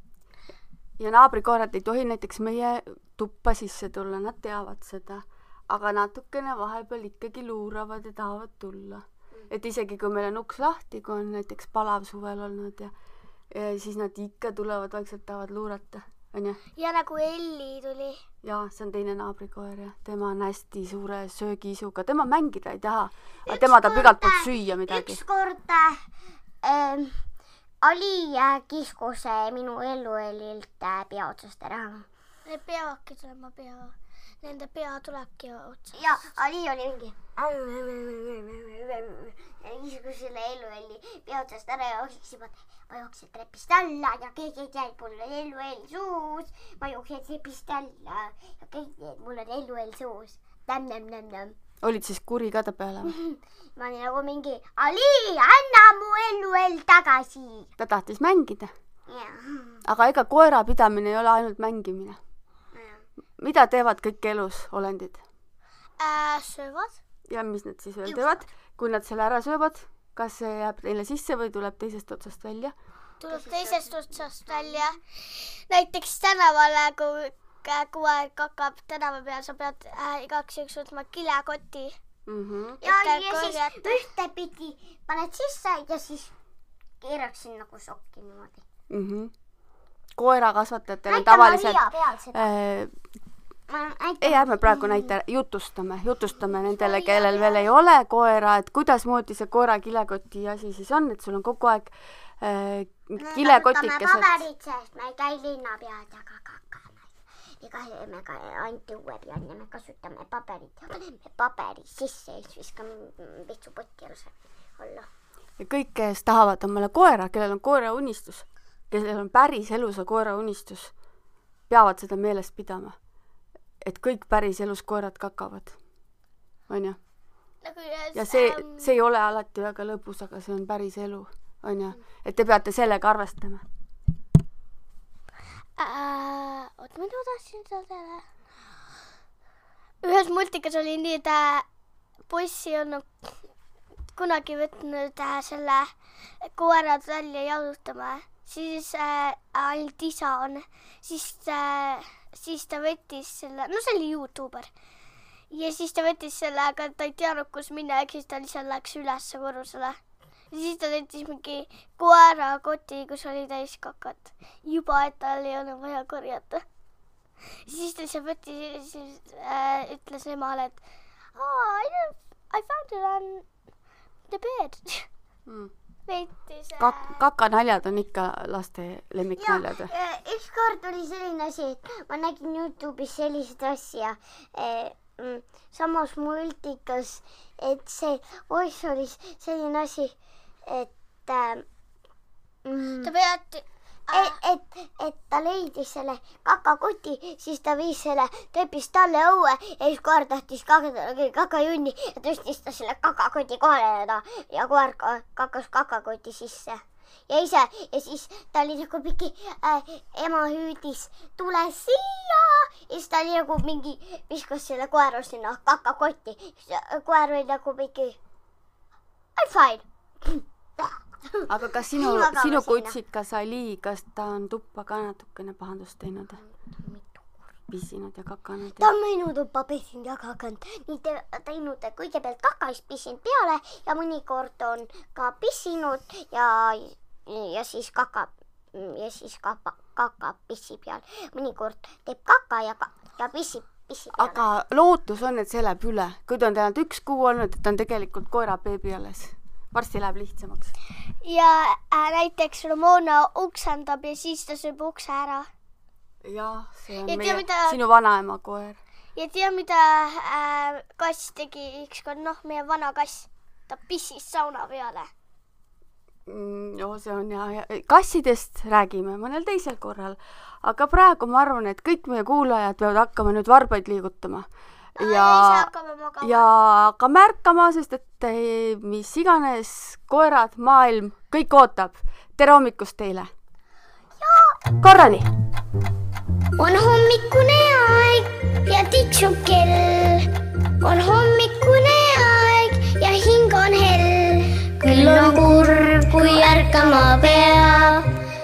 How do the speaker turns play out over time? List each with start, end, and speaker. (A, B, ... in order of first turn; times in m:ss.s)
0:01.0-0:12.9 A
0:13.5-0:16.6 A
0:16.8-0:18.2 B
0:18.4-0:25.2 A
0:23.5-0:26.0 C
0:26.6-0:27.2 C
0:27.8-0:32.1 C
0:32.4-0:35.9 B
0:35.9-0:51.6 C
0:51.8-0:53.1 A
0:53.0-0:57.7 C
0:57.8-0:58.7 A
0:59.1-0:59.8 C
0:59.8-1:02.2 A
1:02.7-1:03.0 C
1:03.4-1:05.2 A
1:06.0-1:06.9 B
1:07.3-1:12.7 A
1:08.0-1:08.4 C
1:13.2-1:22.0 B
1:13.3-1:14.9 C
1:22.3-1:22.8 A
1:22.8-1:26.3 C
1:22.8-1:24.0 B
1:27.0-1:28.6 C
1:28.9-1:29.3 A
1:30.2-1:32.9 A
1:31.1-1:32.5 C
1:33.7-1:35.1 C
1:34.2-1:44.4 A
1:36.6-1:37.7 C
1:43.2-1:55.1 C
1:55.6-2:00.9 A
2:01.7-2:03.0 A
2:03.8-2:05.8 A
2:06.7-2:07.0 A
2:07.6-2:08.9 B
2:08.1-2:13.6 A
2:15.8-2:18.2 B
2:20.0-2:21.6 B
2:22.3-2:23.0 B
2:24.1-2:34.7 B
2:35.5-2:40.0 B
2:40.5-2:46.6 B
2:47.6-2:50.8 B
2:51.4-2:53.4 B
2:54.3-2:55.1 B
2:56.1-2:57.2 B
2:56.8-2:59.9 A
2:59.4-3:10.1 C
3:10.6-3:11.6 C
3:12.6-3:13.1 C
3:13.0-3:14.4 B
3:14.1-3:38.2 C
3:39.4-3:43.0 C
3:41.5-3:46.4 A
3:46.4-3:47.4 C
3:47.7-3:48.9 A
3:48.8-4:04.4 C
4:04.1-4:10.7 A
4:11.2-4:15.5 B
4:16.2-4:18.8 A
4:17.0-4:17.8 B
4:19.2-4:25.1 B
4:26.3-4:35.7 A
4:35.0-4:36.5 B
4:36.2-4:43.3 A
4:44.2-4:44.5 C
4:44.8-4:45.3 A
4:46.6-4:50.2 C
4:50.8-4:58.1 C